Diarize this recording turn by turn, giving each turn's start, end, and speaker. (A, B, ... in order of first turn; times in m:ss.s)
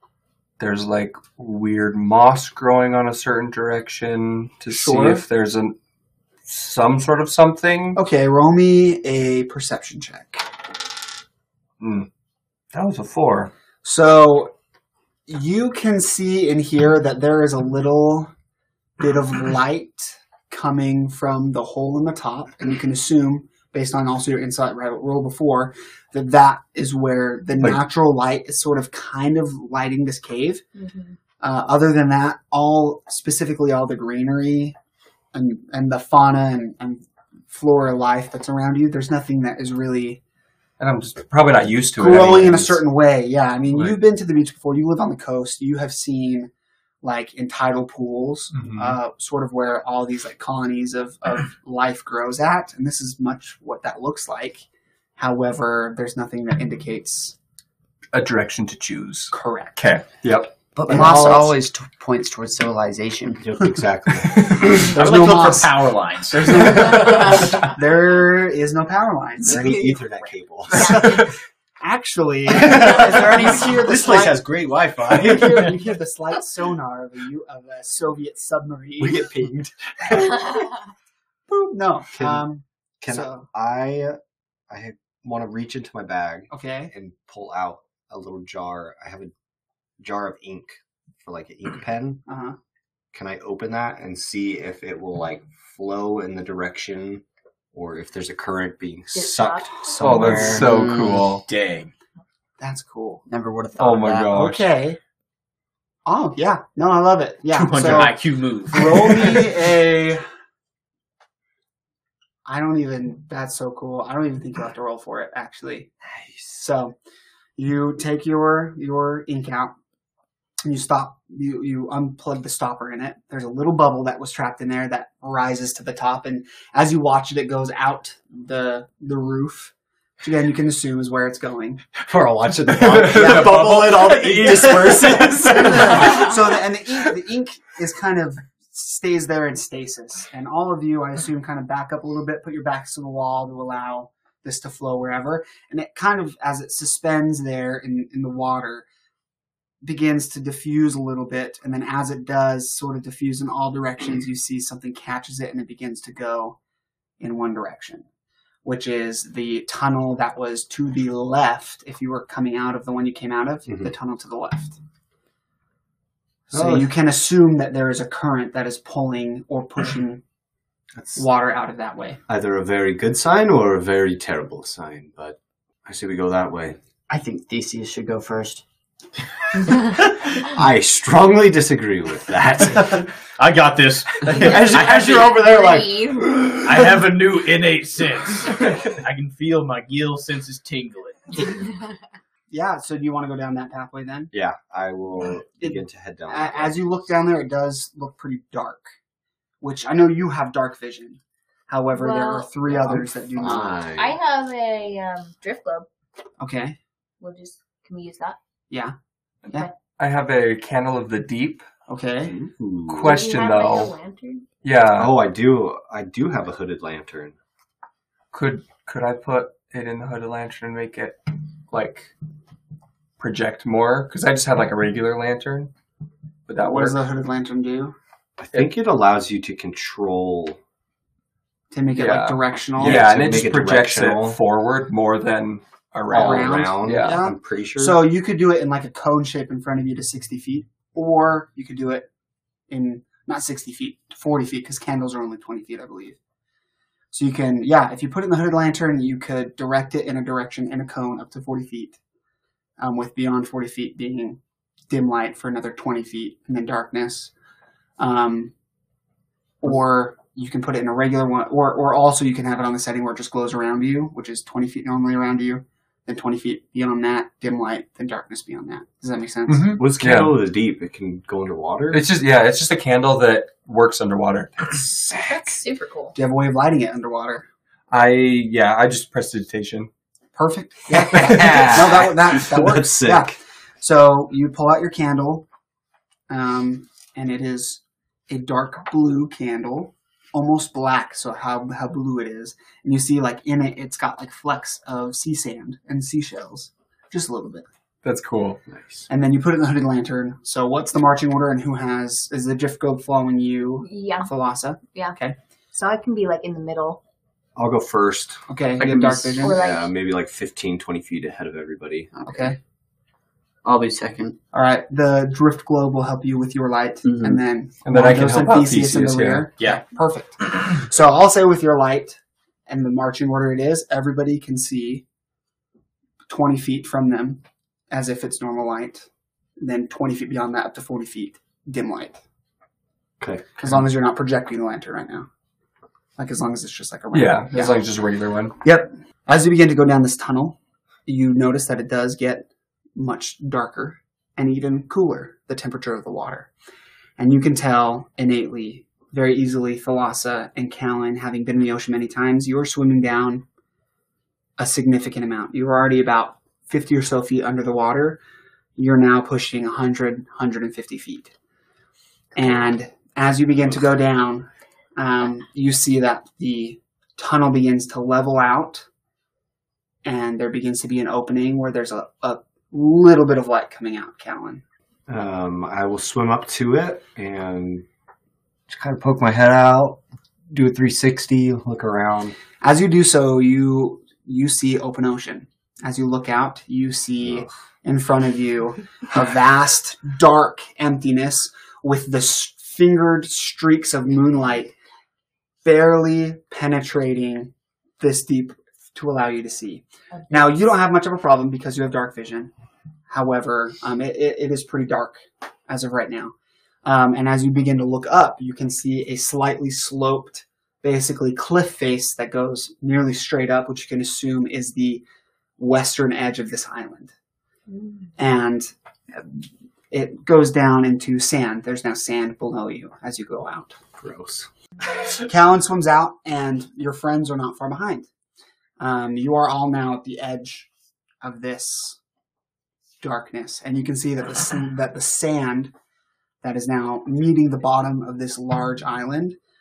0:00.6-0:05.8 A
0:04.7-0:05.2 B
0:06.4-0:08.0 A
0:07.9-0:10.5 B
0:11.8-0:12.1 A
0:12.7-0:13.5 A
0:13.8-0:14.5 B
0:15.3-0:18.3 B
0:19.0-0:30.6 B
0:30.8-0:31.2 C
0:31.4-0:34.8 B
0:35.3-0:40.2 B
0:40.8-0:42.7 A
0:42.0-0:46.5 B
0:47.0-0:57.4 B
0:48.5-0:49.0 A
0:58.1-1:00.5 A
0:59.3-0:59.8 B
1:00.8-1:03.5 D
1:00.9-1:01.6 B
1:03.4-1:04.6 E
1:04.6-1:05.8 B
1:04.7-1:07.5 F
1:06.4-1:09.7 B
1:09.4-1:11.2 E
1:09.6-1:09.9 D
1:10.7-1:14.5 B
1:12.5-1:15.8 E
1:15.1-1:19.3 B
1:19.0-1:20.5 E
1:20.0-1:20.7 B
1:21.5-1:23.5 B
1:22.1-1:22.5 E
1:23.0-1:29.3 E
1:26.5-1:26.9 B
1:30.0-1:32.2 E
1:32.3-1:32.6 B
1:33.1-1:40.7 E
1:39.1-1:39.7 C
1:39.9-1:41.0 B
1:40.0-1:41.4 A
1:40.4-1:41.2 D
1:41.4-1:41.9 F
1:42.6-1:43.2 B
1:43.3-1:44.3 D
1:43.8-1:44.7 A
1:44.3-1:45.0 B
1:46.0-1:50.3 B
1:47.5-1:49.6 F
1:52.4-1:55.9 B
1:56.0-1:56.5 E
1:56.5-1:57.0 B
1:57.6-1:59.8 B
2:00.6-2:11.8 B
2:11.9-2:16.3 E
2:12.7-2:16.2 A
2:13.0-2:28.9 B
2:29.8-2:36.6 B
2:37.2-2:38.1 B
2:38.6-2:44.8 B
2:46.5-2:50.2 B
2:46.5-2:46.9 E
2:51.2-2:52.2 B
2:52.3-2:56.8 E
2:57.1-2:58.6 D
2:59.9-3:03.1 E
3:03.2-3:05.7 F
3:04.4-3:06.6 C
3:04.4-3:06.0 E
3:06.5-3:11.7 F
3:11.5-3:11.9 C
3:12.5-3:14.3 B
3:14.3-3:16.9 E
3:15.6-3:18.9 B
3:19.6-3:23.9 B
3:22.0-3:25.9 C
3:23.4-3:24.2 E
3:26.4-3:26.8 B
3:27.2-3:28.4 C
3:30.0-3:31.7 A
3:31.9-3:32.4 B
3:32.2-3:33.3 E
3:32.9-3:33.9 A
3:33.0-3:34.5 C
3:34.6-3:35.1 A
3:34.9-3:37.4 E
3:38.3-3:42.1 A
3:43.2-3:45.7 A
3:46.5-3:47.0 A
3:46.6-3:48.0 B
3:48.4-3:50.6 E
3:51.7-3:53.1 B
3:52.0-3:57.2 A
3:52.8-3:54.4 E
3:56.1-4:02.1 B
3:56.1-3:58.0 E
4:02.7-4:06.2 B
4:07.1-4:12.0 B
4:12.8-4:17.3 B
4:18.0-4:18.5 B
4:19.6-4:29.8 B
4:29.5-4:30.3 A
4:29.8-4:32.1 E
4:31.9-4:34.8 A
4:34.8-4:35.2 B
4:35.2-4:36.2 C
4:36.1-4:37.5 B
4:37.9-4:39.9 A
4:40.3-4:45.5 B
4:40.9-4:42.1 A
4:41.5-4:43.2 E
4:46.3-4:57.7 B
4:58.0-4:58.6 A
4:58.7-4:59.0 E
4:59.1-5:05.4 B
5:03.8-5:05.2 C
5:05.7-5:07.0 C
5:07.6-5:08.5 E
5:08.5-5:09.6 B
5:08.8-5:09.4 D
5:09.1-5:09.9 C
5:09.4-5:12.1 E
5:12.2-5:12.6 B
5:13.6-5:14.4 D
5:14.5-5:25.0 B
5:17.8-5:19.5 A
5:26.3-5:32.2 B
5:33.2-5:33.7 E
5:33.6-5:35.3 B
5:36.2-5:37.9 B
5:37.1-5:38.6 A
5:38.6-5:46.5 B
5:47.2-5:53.5 B
5:54.6-5:58.2 B
5:58.8-6:01.3 B
6:02.4-6:08.9 B
6:10.0-6:14.6 B
6:15.1-6:17.8 E
6:18.7-6:22.4 E
6:22.6-6:34.8 B
6:35.6-6:42.5 B
6:43.1-6:46.3 B
6:46.8-6:55.0 B
6:55.6-6:57.1 B
6:57.7-6:58.1 C
6:58.2-7:03.8 B
7:04.0-7:04.5 E
7:05.2-7:08.1 B
7:08.8-7:10.7 B
7:11.2-7:12.0 B
7:13.0-7:15.7 B
7:16.4-7:19.4 B